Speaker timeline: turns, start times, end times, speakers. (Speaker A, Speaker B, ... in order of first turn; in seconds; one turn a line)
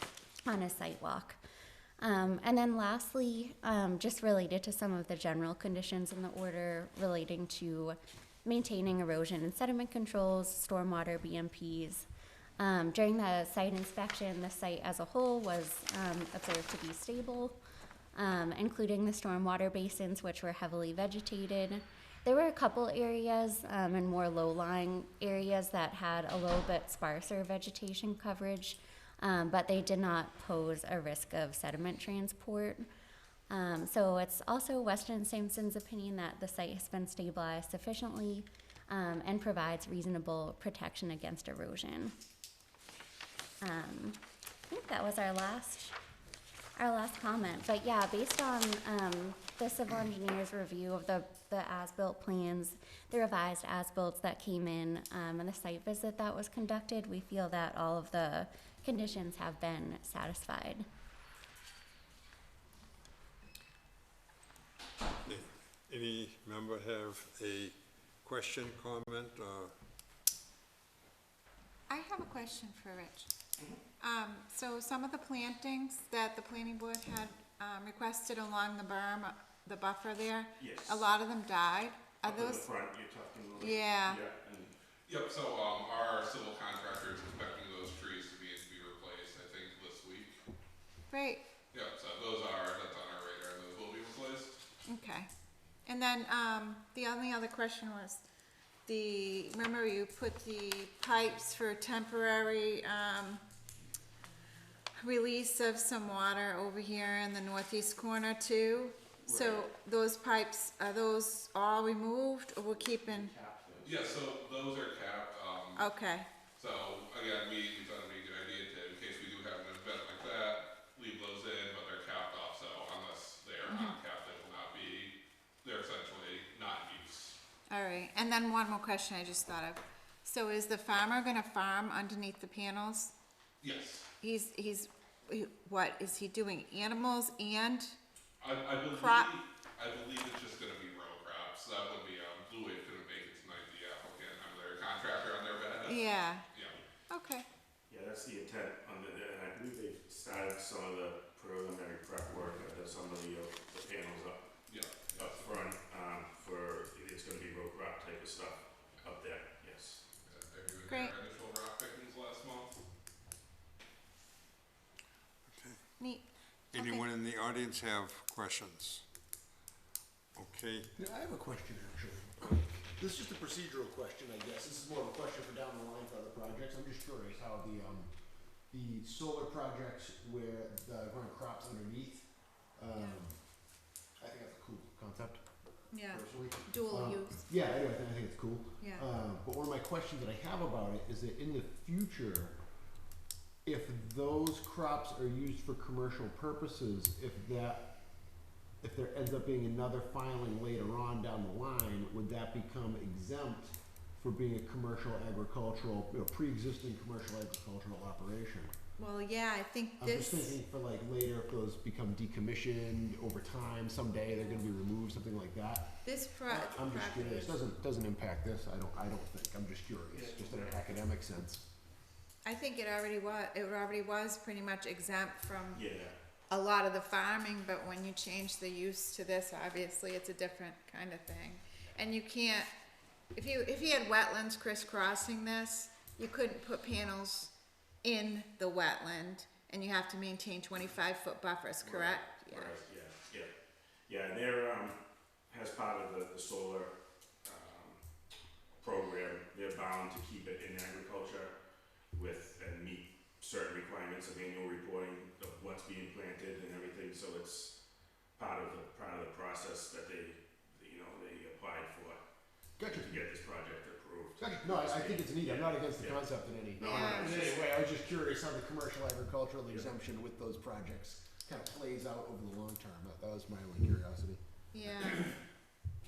Speaker A: 0.5-1.4
Speaker A: 2.0-12.1
Speaker A: 12.6-17.6
Speaker A: 18.1-32.9
Speaker A: 33.5-42.1
Speaker A: 43.6-46.0
Speaker A: 46.8-60.9
Speaker B: 65.3-69.7
Speaker C: 71.9-73.3
Speaker C: 74.0-82.7
Speaker D: 80.6-81.1
Speaker D: 82.3-84.7
Speaker C: 83.6-84.2
Speaker E: 85.1-90.4
Speaker C: 91.1-91.4
Speaker E: 91.7-94.6
Speaker C: 94.9-95.3
Speaker C: 95.9-98.2
Speaker C: 98.9-103.4
Speaker C: 105.0-113.3
Speaker D: 109.2-109.7
Speaker D: 112.8-114.2
Speaker E: 113.8-115.9
Speaker C: 115.8-116.3
Speaker E: 116.6-127.4
Speaker C: 123.7-124.0
Speaker C: 127.7-133.1
Speaker E: 133.6-134.1
Speaker C: 134.2-138.0
Speaker E: 138.4-146.8
Speaker C: 138.9-139.4
Speaker C: 145.8-146.4
Speaker C: 147.1-147.5
Speaker D: 147.9-154.5
Speaker E: 154.7-155.7
Speaker D: 155.2-160.0
Speaker E: 160.2-162.8
Speaker C: 160.9-161.2
Speaker B: 165.5-165.8
Speaker C: 166.0-167.0
Speaker B: 166.7-169.1
Speaker B: 170.3-170.9
Speaker F: 171.0-178.1
Speaker F: 178.7-183.4
Speaker F: 184.2-185.4
Speaker C: 185.9-187.5
Speaker F: 186.0-192.6
Speaker C: 188.8-189.1
Speaker F: 193.7-197.9
Speaker F: 198.8-208.7
Speaker C: 209.0-210.6
Speaker F: 210.0-221.7
Speaker C: 216.1-217.6
Speaker D: 220.1-220.9
Speaker C: 222.4-225.8
Speaker D: 225.7-226.2
Speaker C: 226.5-232.7
Speaker C: 233.3-237.5
Speaker C: 238.0-242.8
Speaker D: 241.8-243.5
Speaker D: 244.1-248.0
Speaker D: 248.8-251.6
Speaker D: 252.1-257.8
Speaker D: 258.4-262.2
Speaker F: 262.8-263.2
Speaker D: 262.9-267.8
Speaker F: 264.4-274.4
Speaker C: 266.8-267.5
Speaker D: 269.6-269.9
Speaker C: 274.7-275.3